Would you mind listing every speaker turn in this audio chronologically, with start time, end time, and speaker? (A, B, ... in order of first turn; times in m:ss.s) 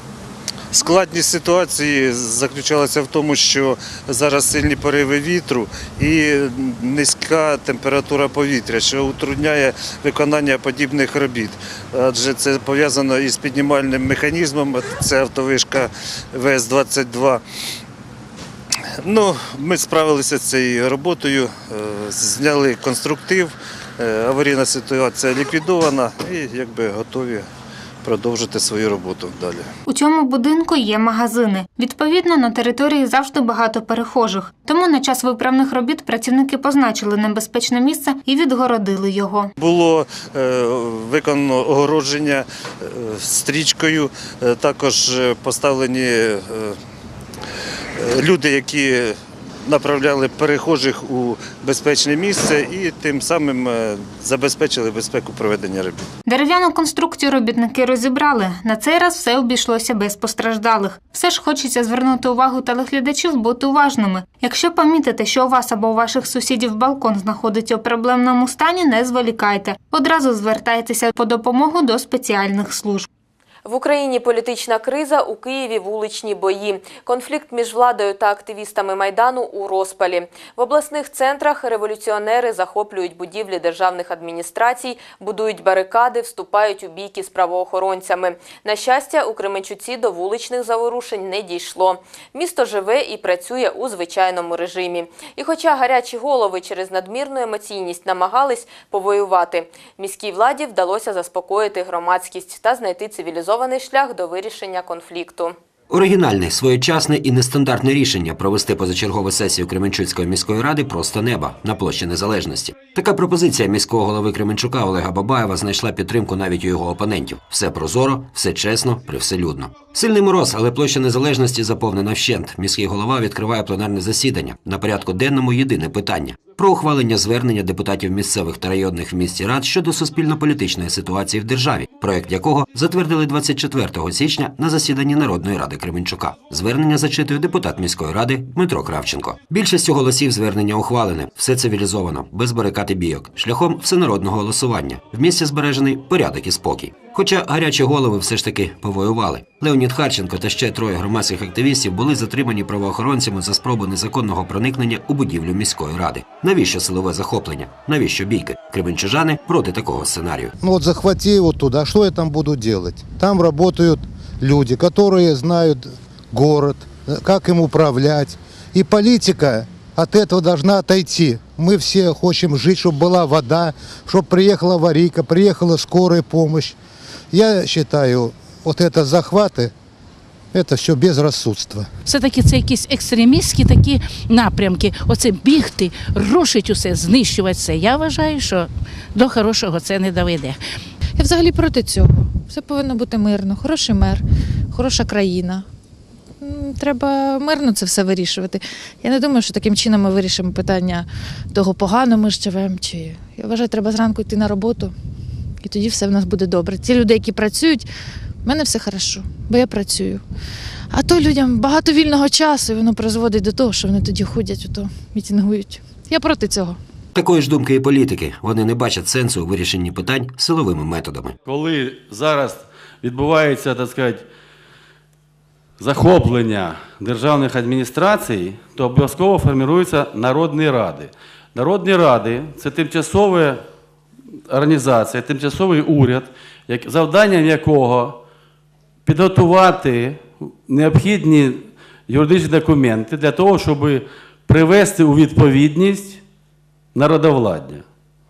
0:00.7-0:17.4 A
0:19.0-0:27.4 A
0:28.0-0:29.6 A
0:29.9-0:39.5 B
0:39.6-0:42.4 A
0:43.0-0:46.7 A
0:48.0-0:49.1 A
0:49.6-0:56.0 A
0:56.2-1:13.1 B
1:13.6-1:45.6 C
1:45.9-2:40.5 D
2:40.6-2:56.7 E
2:57.3-2:59.7 E
3:00.5-3:01.9 E
3:02.1-3:10.6 F
3:11.2-3:14.2 G
3:14.7-3:15.6 G
3:16.4-3:24.9 G
3:25.6-3:27.8 G
3:28.4-3:30.2 G
3:30.9-3:36.8 G
3:37.1-3:41.3 D
3:41.4-3:44.2 H
3:45.8-3:53.6 H
3:54.5-3:58.2 H
3:59.0-4:06.2 H
4:06.9-4:07.8 H